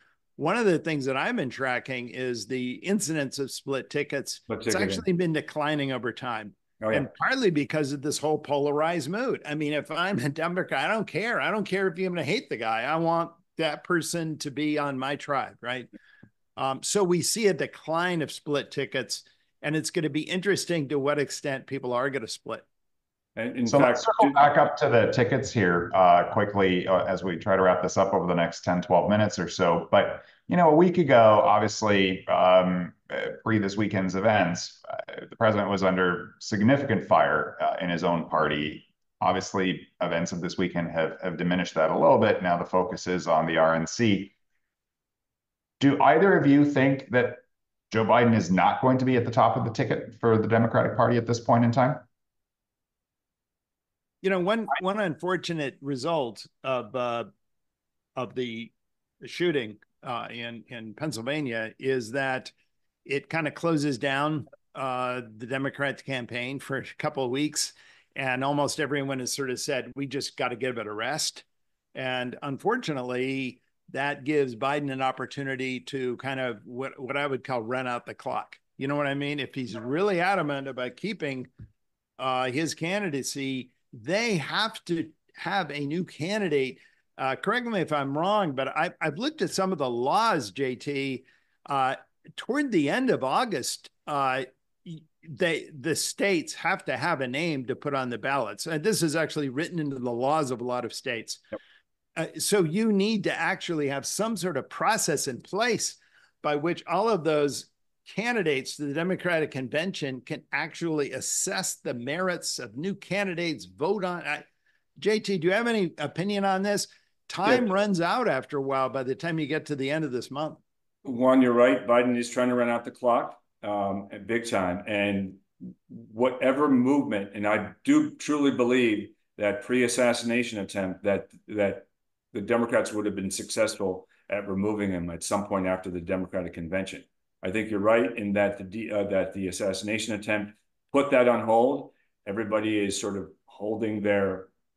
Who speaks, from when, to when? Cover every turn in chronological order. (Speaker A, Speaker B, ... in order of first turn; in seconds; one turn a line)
Speaker A: 0.4-15.9
Speaker B: 4.5-5.0
Speaker B: 6.8-7.1
Speaker A: 16.6-22.6
Speaker B: 23.4-24.5
Speaker C: 23.7-44.3
Speaker C: 45.8-52.0
Speaker A: 54.2-57.3
Speaker A: 58.1-62.5
Speaker A: 63.0-81.5
Speaker A: 82.2-101.4
Speaker A: 102.2-114.5
Speaker A: 115.0-120.6
Speaker B: 121.0-144.5